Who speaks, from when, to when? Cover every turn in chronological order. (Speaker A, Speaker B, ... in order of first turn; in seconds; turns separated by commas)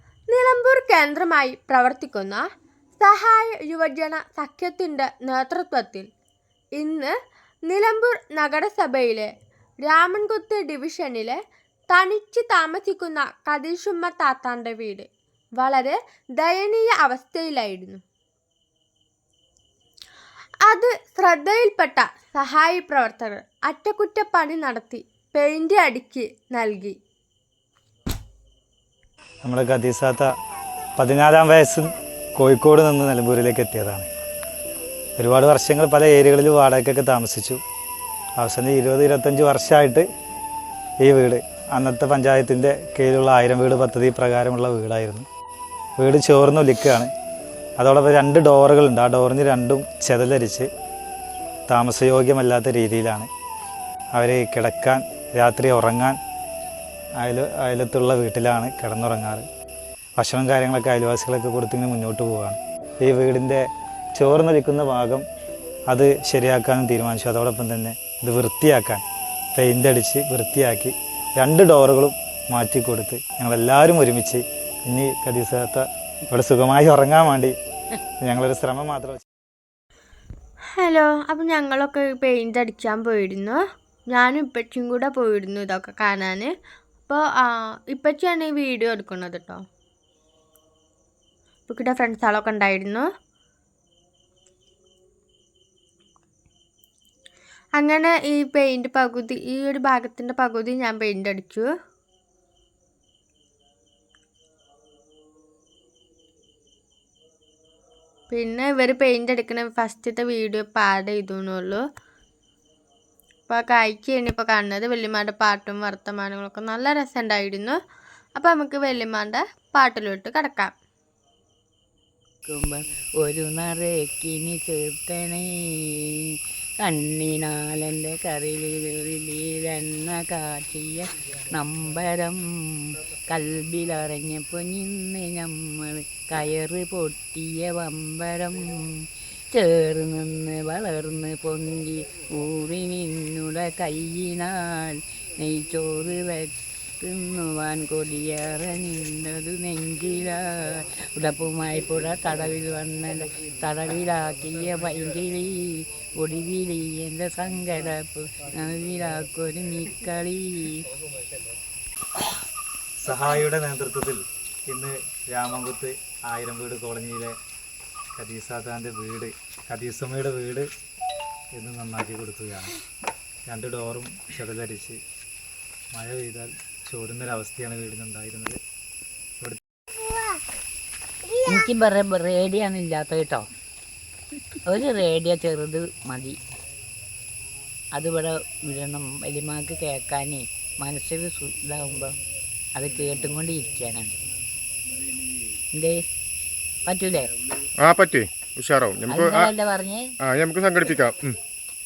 Speaker A: 0.3-2.4, Speaker A: 3.0-6.1, Speaker A: 6.8-7.1, Speaker A: 7.7-9.3, Speaker A: 9.8-11.4, Speaker A: 11.9-18.0, Speaker A: 20.6-27.0, Speaker B: 29.4-30.3, Speaker B: 31.0-34.1, Speaker B: 35.2-37.6, Speaker B: 38.4-40.0, Speaker B: 41.0-45.2, Speaker B: 46.0-47.1, Speaker B: 47.8-50.7, Speaker B: 51.7-53.3, Speaker B: 54.1-56.2, Speaker B: 57.2-59.4, Speaker B: 60.2-63.6, Speaker B: 64.2-65.2, Speaker B: 65.9-69.0, Speaker B: 69.5-77.5, Speaker B: 78.2-79.2, Speaker A: 80.8-86.5, Speaker A: 87.1-89.6, Speaker A: 91.7-93.0, Speaker A: 97.8-101.7, Speaker A: 108.3-111.8, Speaker A: 113.5-117.8, Speaker A: 118.3-120.7, Speaker C: 122.5-126.2, Speaker C: 126.8-138.8, Speaker C: 139.5-160.8, Speaker B: 163.0-167.3, Speaker B: 168.2-170.7, Speaker B: 171.6-172.8, Speaker B: 173.5-175.0, Speaker B: 175.9-178.6, Speaker C: 181.4-183.4, Speaker C: 184.7-186.4, Speaker C: 187.9-192.1, Speaker C: 192.8-194.2, Speaker C: 195.7-196.0, Speaker C: 196.8-197.3, Speaker D: 197.8-199.5, Speaker C: 199.1-200.1, Speaker D: 200.2-201.4